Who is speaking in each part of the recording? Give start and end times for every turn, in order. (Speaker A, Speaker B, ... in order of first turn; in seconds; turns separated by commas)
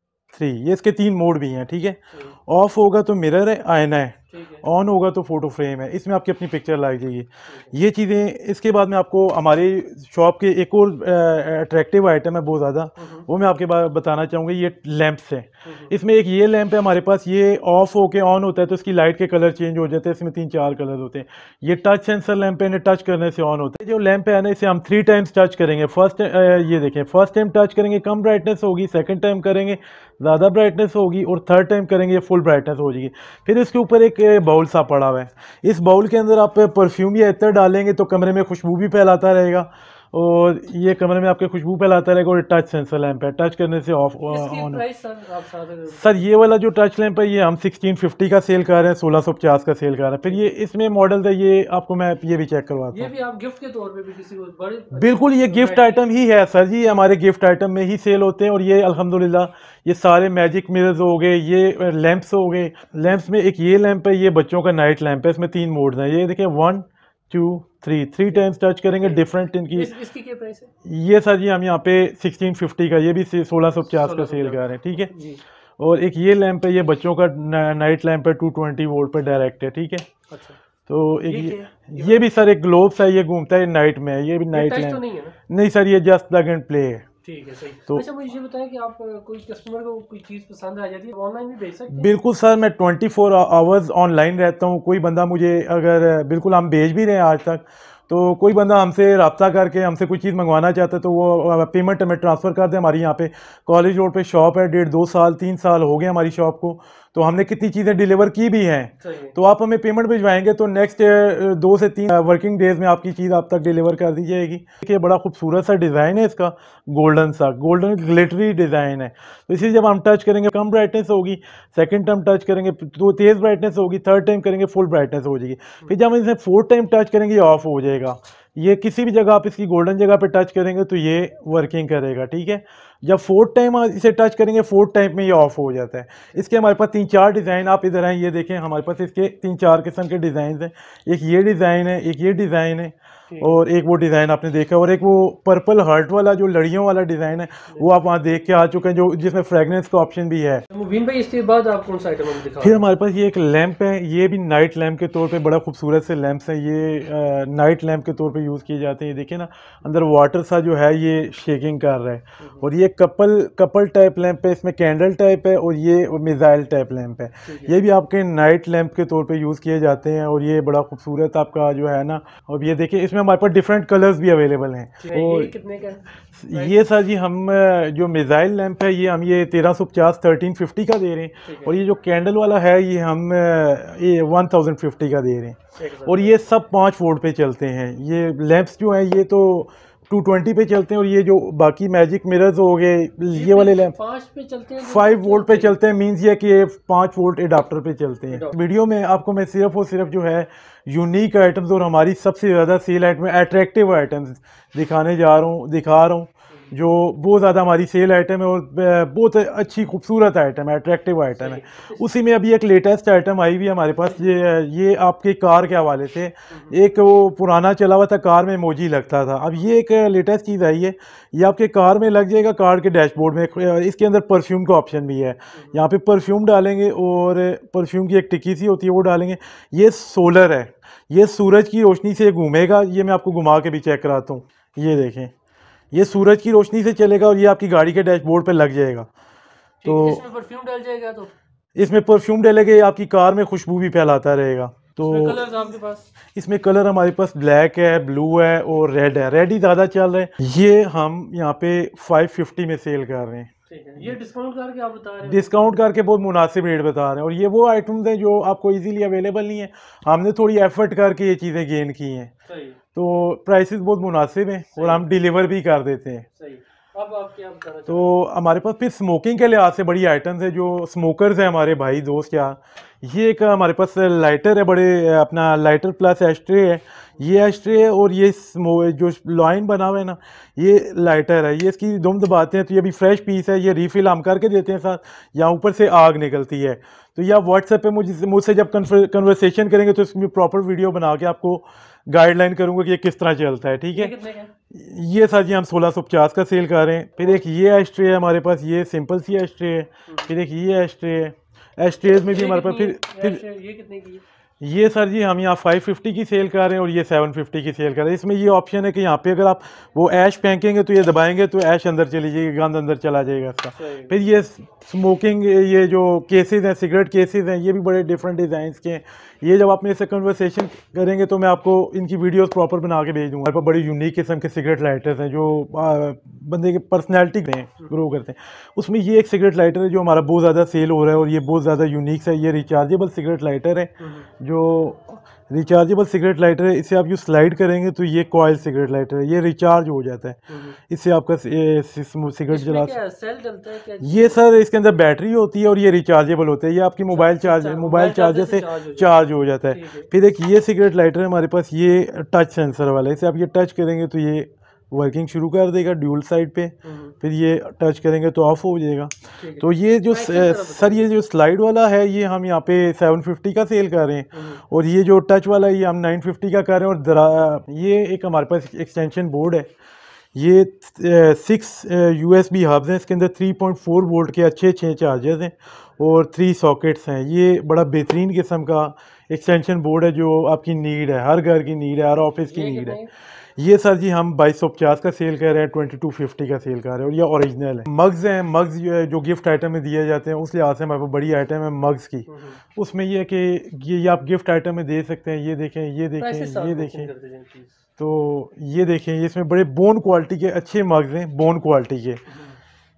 Speaker A: 0.3-44.8, Speaker B: 4.3-4.7, Speaker B: 7.5-7.8, Speaker B: 13.0-13.3, Speaker B: 15.6-15.9, Speaker B: 44.3-46.3, Speaker A: 45.9-53.1, Speaker B: 52.9-56.0, Speaker A: 54.9-69.9, Speaker B: 68.3-70.7, Speaker A: 70.8-75.1, Speaker B: 73.9-75.4, Speaker A: 75.8-80.1, Speaker B: 80.3-80.6, Speaker A: 80.9-87.1, Speaker B: 81.2-82.2, Speaker B: 84.5-85.3, Speaker B: 87.2-92.2, Speaker A: 91.9-150.6, Speaker B: 109.0-109.3, Speaker B: 143.3-143.6, Speaker B: 150.7-152.8, Speaker A: 152.6-175.5, Speaker B: 162.4-162.7, Speaker B: 167.4-167.8, Speaker B: 175.0-176.8, Speaker A: 176.4-193.9, Speaker B: 181.4-181.8, Speaker B: 185.8-186.4, Speaker B: 193.3-195.8, Speaker A: 194.8-235.3, Speaker B: 198.3-198.6, Speaker B: 211.4-212.1, Speaker B: 216.5-216.8, Speaker B: 225.5-225.8, Speaker A: 235.9-239.1, Speaker B: 239.8-241.3, Speaker A: 239.8-240.2, Speaker A: 241.8-245.4, Speaker B: 245.0-246.1, Speaker A: 246.3-254.2, Speaker B: 253.7-255.8, Speaker A: 255.2-262.3, Speaker B: 262.4-262.8, Speaker A: 262.9-266.2, Speaker B: 264.8-265.1, Speaker B: 266.4-268.2, Speaker A: 267.9-294.1, Speaker B: 293.9-294.5, Speaker A: 294.7-303.4, Speaker B: 302.0-304.2, Speaker A: 304.6-342.9, Speaker B: 313.8-314.2, Speaker B: 334.0-334.3, Speaker B: 340.5-340.8, Speaker B: 342.5-344.5, Speaker A: 344.0-369.7, Speaker B: 347.1-350.1, Speaker B: 356.8-357.1, Speaker B: 359.4-361.2, Speaker B: 364.3-364.6, Speaker A: 370.4-383.0, Speaker B: 382.4-383.1, Speaker A: 383.6-397.1, Speaker B: 392.3-392.6, Speaker B: 396.2-397.8, Speaker A: 398.0-402.2, Speaker B: 402.3-402.6